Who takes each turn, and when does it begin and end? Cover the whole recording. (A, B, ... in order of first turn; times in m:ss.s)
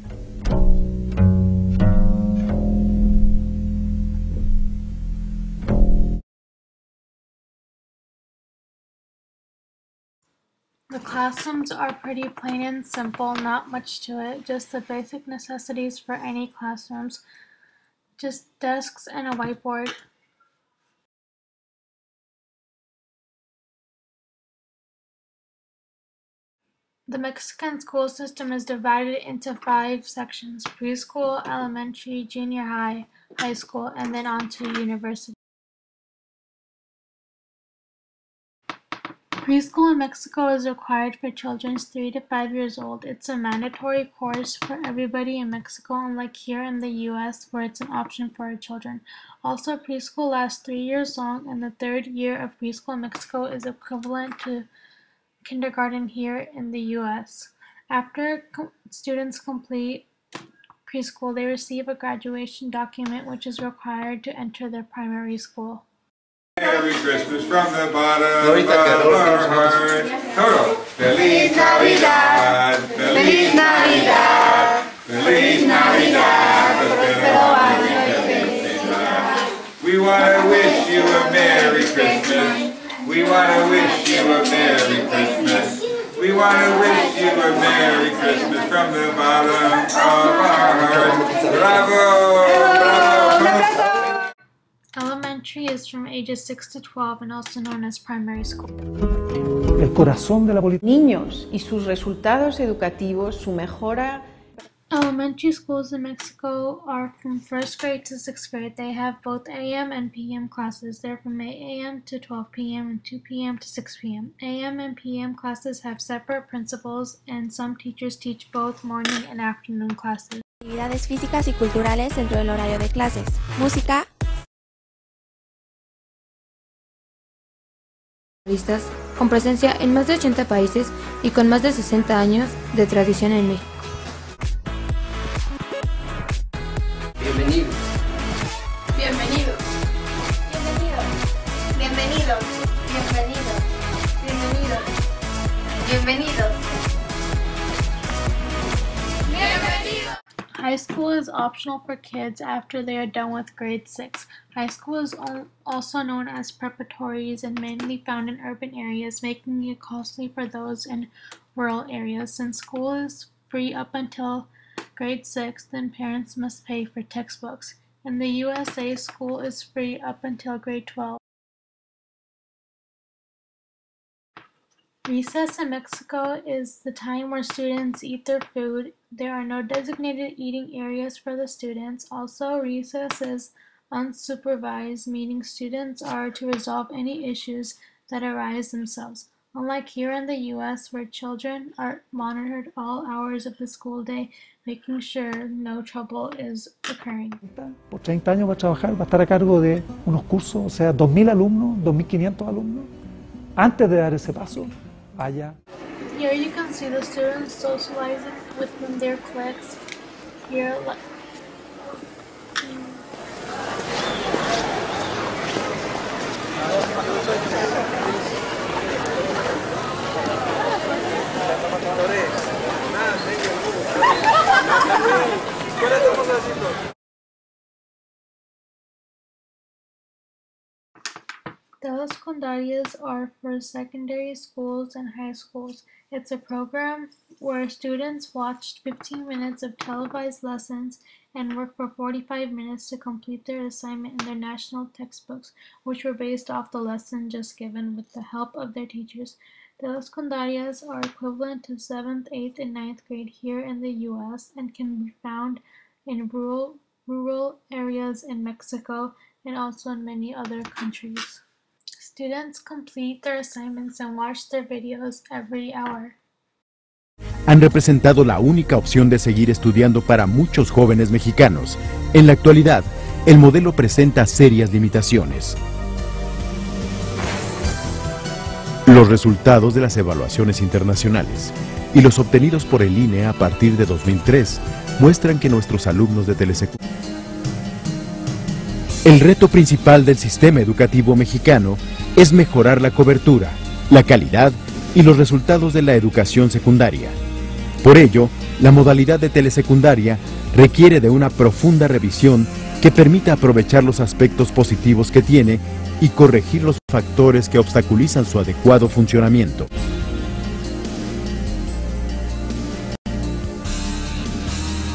0:10.9-0:17.2 A
0:18.2-0:20.0 A
0:27.1-0:35.4 A
0:39.4-0:54.7 A
0:55.4-1:00.0 A
1:00.8-1:05.8 A
1:06.6-1:34.0 B
1:35.0-1:38.7 A
1:39.8-1:40.8 C
1:40.8-1:44.2 D
1:44.9-2:00.4 A
2:00.6-2:04.1 E
2:08.5-2:13.6 F
2:18.9-2:19.6 G
2:20.5-2:21.0 G
2:21.7-2:23.6 G
2:24.2-2:24.9 G
2:25.8-2:26.6 G
2:30.5-2:51.2 A
2:55.0-3:17.4 A
3:17.4-3:22.9 C
3:23.6-3:25.5 C
3:26.1-3:29.8 A
3:30.4-3:31.0 A
3:51.8-4:21.4 A
4:22.0-4:26.2 A
4:27.5-4:35.6 H
4:38.8-4:46.8 H
4:49.0-4:57.2 H
4:57.8-5:09.7 H